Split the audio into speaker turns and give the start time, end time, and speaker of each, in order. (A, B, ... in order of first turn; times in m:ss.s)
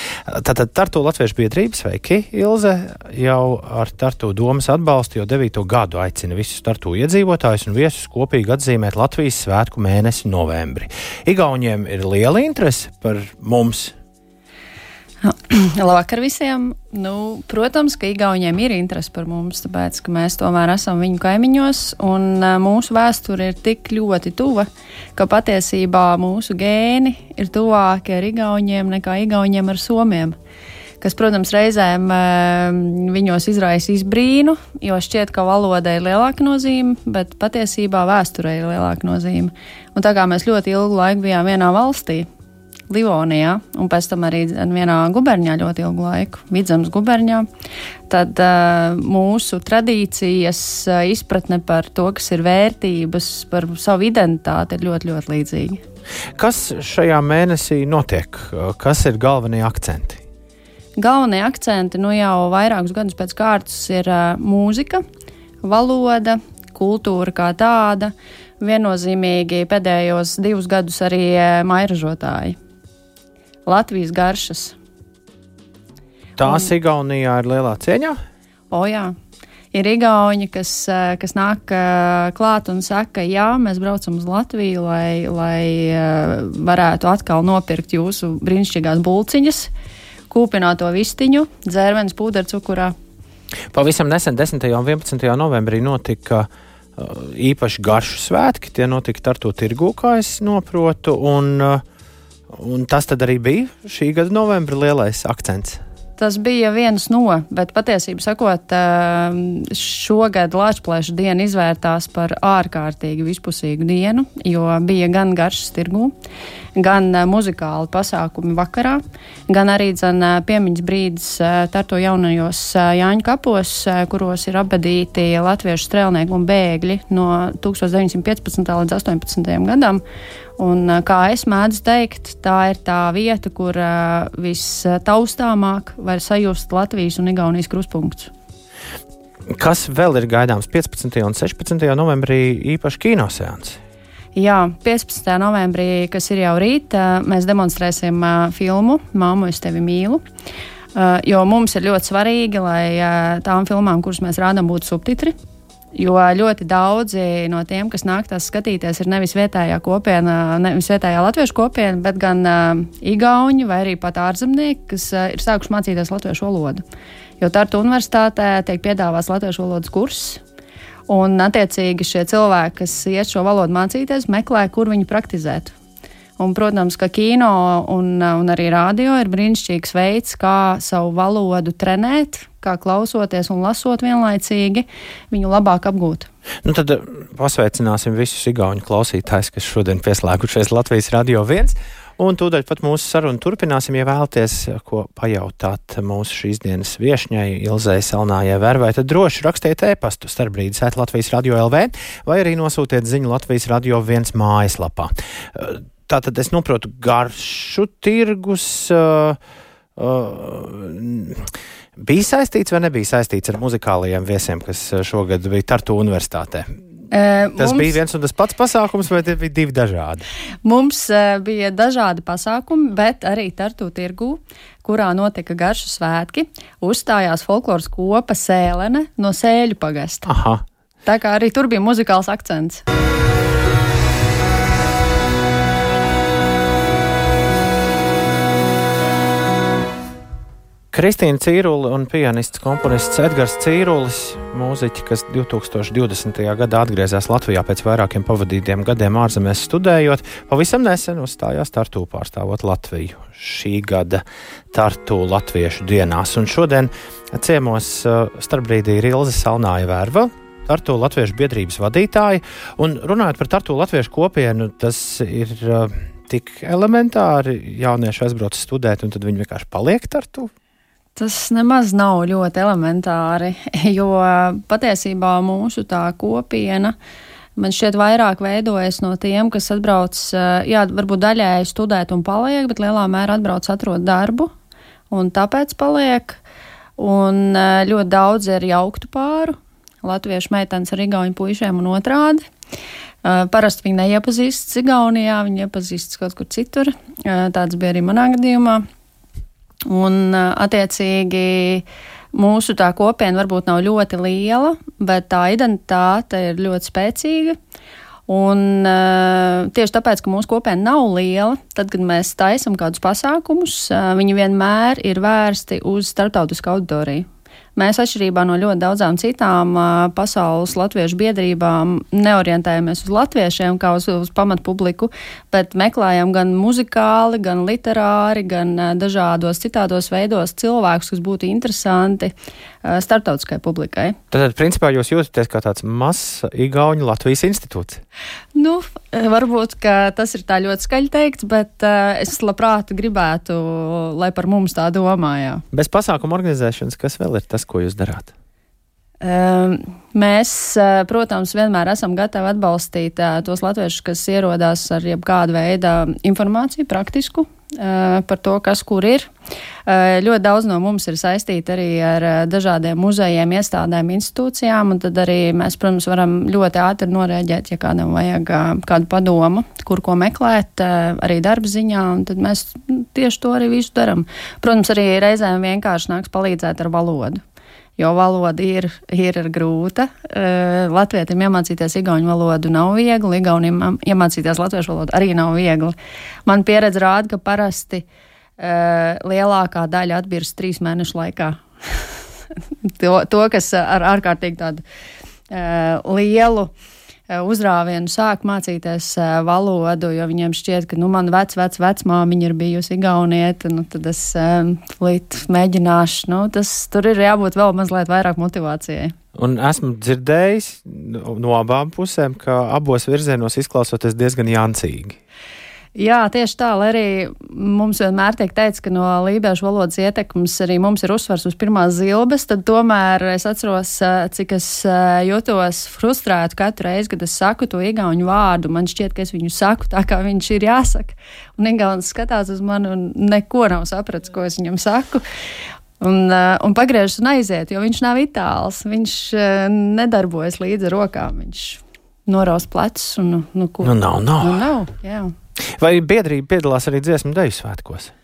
0:00.3-0:14.0 A
0:15.2-0:30.4 B
0:31.0-0:42.3 B
0:42.9-0:47.5 B
0:48.1-0:55.8 B
0:56.4-1:00.2 A
1:01.0-1:05.0 B
1:05.6-1:12.6 B
1:13.7-1:14.8 B
1:16.4-1:18.2 A
1:16.4-1:16.7 B
1:18.7-1:19.2 B
1:19.7-1:29.7 B
1:30.3-1:33.0 B
1:33.7-1:41.8 A
1:42.5-1:45.8 A
1:46.2-1:56.1 B
1:56.8-2:10.0 B
2:10.6-2:18.3 B
2:19.5-2:23.8 A
2:24.4-2:30.2 B
2:31.0-2:35.3 B
2:36.0-2:46.8 B
2:47.4-2:50.4 B
2:51.1-2:55.7 B
2:56.4-3:06.3 B
3:06.6-3:29.4 A
3:30.0-3:36.7 A
3:37.1-3:37.9 B
3:37.6-3:40.2 A
3:40.6-3:50.3 B
3:50.3-3:50.6 A
3:51.1-3:52.8 B
4:00.9-4:30.5 A
4:31.2-4:37.0 B
4:37.6-4:44.5 B
4:45.1-4:46.4 B
4:47.0-4:52.4 B
4:53.2-4:58.8 B
4:59.9-5:07.6 B
5:08.3-5:32.3 B
5:32.8-5:34.2 B
5:34.3-5:38.0 A
5:38.6-5:45.6 B
5:45.7-5:48.3 A
5:49.2-5:59.3 B
5:59.9-6:17.4 B
6:18.0-6:26.0 B
6:26.5-6:28.1 B
6:28.6-6:32.1 B
6:32.8-6:34.8 B
6:35.5-6:36.7 B
6:37.3-6:49.2 B
6:49.4-6:55.2 A
6:56.0-7:15.2 B
7:16.0-7:25.3 B
7:23.8-7:24.6 A
7:25.8-7:28.1 A